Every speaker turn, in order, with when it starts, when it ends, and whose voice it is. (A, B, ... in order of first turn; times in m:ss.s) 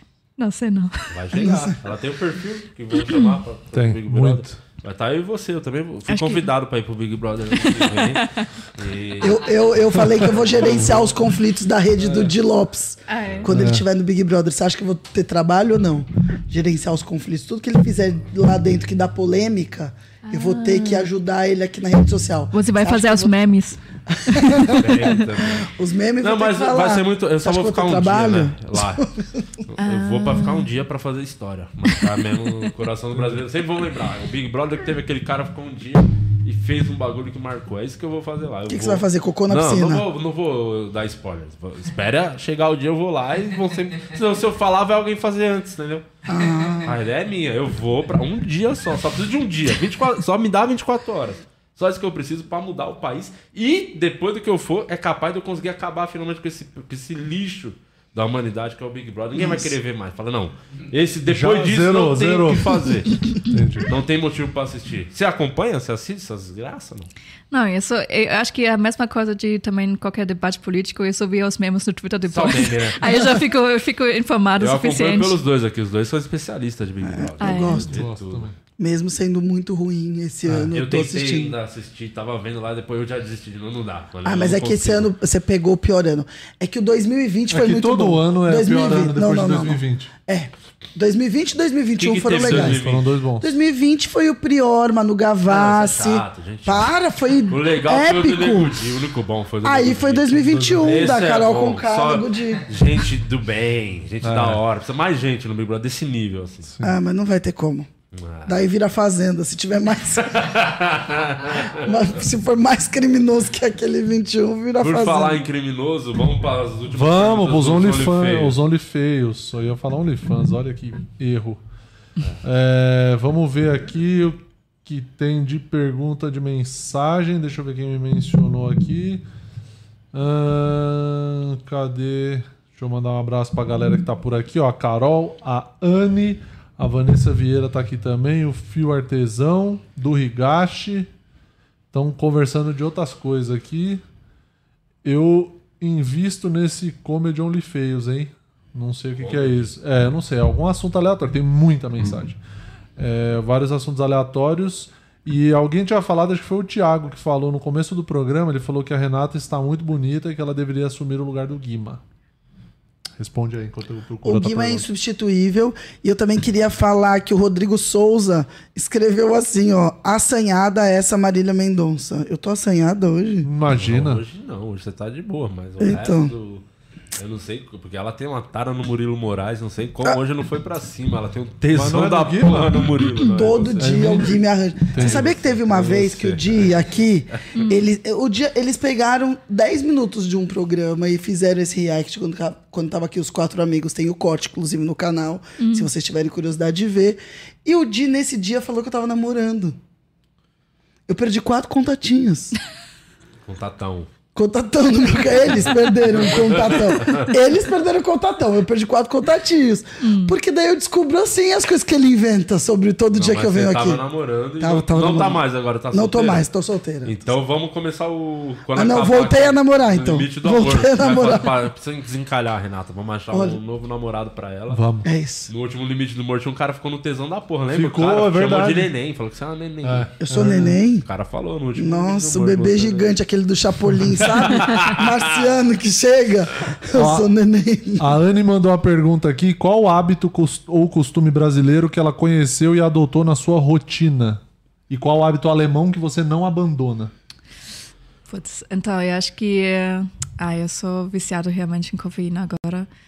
0:00.4-0:01.1 A
0:01.1-0:11.1 B
0:01.4-0:01.7 C
0:03.7-0:04.6 D
0:06.1-0:06.5 A
0:07.6-0:08.5 A
0:09.2-0:23.3 C
0:12.0-0:12.3 B
0:13.1-0:13.5 A
0:13.2-0:13.5 B
0:13.5-0:13.8 D
0:20.2-0:21.1 A
0:22.5-0:25.2 A
0:24.1-0:29.3 C
0:24.7-0:25.7 B
0:26.2-0:29.0 B
0:29.6-0:46.0 B
0:29.8-0:30.7 A
0:38.7-0:40.0 C
0:46.3-0:46.9 C
0:46.8-1:03.2 B
0:59.4-0:59.7 C
1:01.3-1:02.9 D
1:03.5-1:03.9 D
1:03.9-1:07.1 B
1:07.5-1:15.4 A
1:12.3-1:13.2 B
1:14.6-1:18.5 B
1:17.0-1:18.1 C
1:17.4-1:17.9 A
1:17.9-1:18.6 D
1:18.8-1:21.6 C
1:20.5-1:20.7 D
1:20.7-1:25.1 B
1:24.2-1:32.8 C
1:27.5-1:30.1 D
1:32.0-1:33.1 B
1:32.4-1:33.5 D
1:33.4-1:38.8 C
1:35.5-1:36.9 B
1:37.5-1:46.7 B
1:39.6-1:42.7 C
1:40.4-1:41.1 D
1:44.2-1:44.6 D
1:46.7-1:47.0 D
1:46.8-1:47.9 C
1:48.1-1:48.6 B
1:48.5-1:50.5 C
1:50.3-1:51.9 B
1:51.7-1:55.4 C
1:54.8-1:58.6 B
1:56.9-2:01.6 D
2:02.4-2:09.2 D
2:10.1-2:21.1 D
2:21.9-2:24.0 D
2:25.0-2:32.4 D
2:29.2-2:29.7 B
2:33.0-2:42.0 D
2:43.2-2:44.8 D
2:44.2-2:53.5 C
2:44.3-2:44.8 B
2:53.4-2:54.2 D
2:53.7-2:56.6 B
2:55.8-2:56.3 C
2:57.2-3:04.3 B
3:01.7-3:02.9 D
3:03.1-3:19.8 C
3:03.8-3:04.4 D
3:04.9-3:05.3 D
3:05.0-3:07.0 B
3:07.5-3:07.9 A
3:15.6-3:15.9 A
3:21.1-3:22.6 C
3:23.5-3:24.1 B
3:24.4-3:34.0 C
3:26.1-3:27.3 B
3:30.0-3:30.4 A
3:33.1-3:36.5 B
3:34.6-3:37.2 C
3:37.0-3:44.8 B
3:38.7-3:41.5 C
3:43.3-3:43.6 C
3:44.7-3:45.1 D
3:45.0-3:45.5 C
3:45.5-3:50.2 B
3:47.7-3:48.9 D
3:49.8-3:50.8 D
3:50.2-3:51.1 C
3:51.0-3:53.1 B
3:51.8-3:58.1 C
3:54.2-3:55.1 B
3:56.9-3:57.3 D
3:58.0-4:07.1 D
4:08.3-4:12.9 A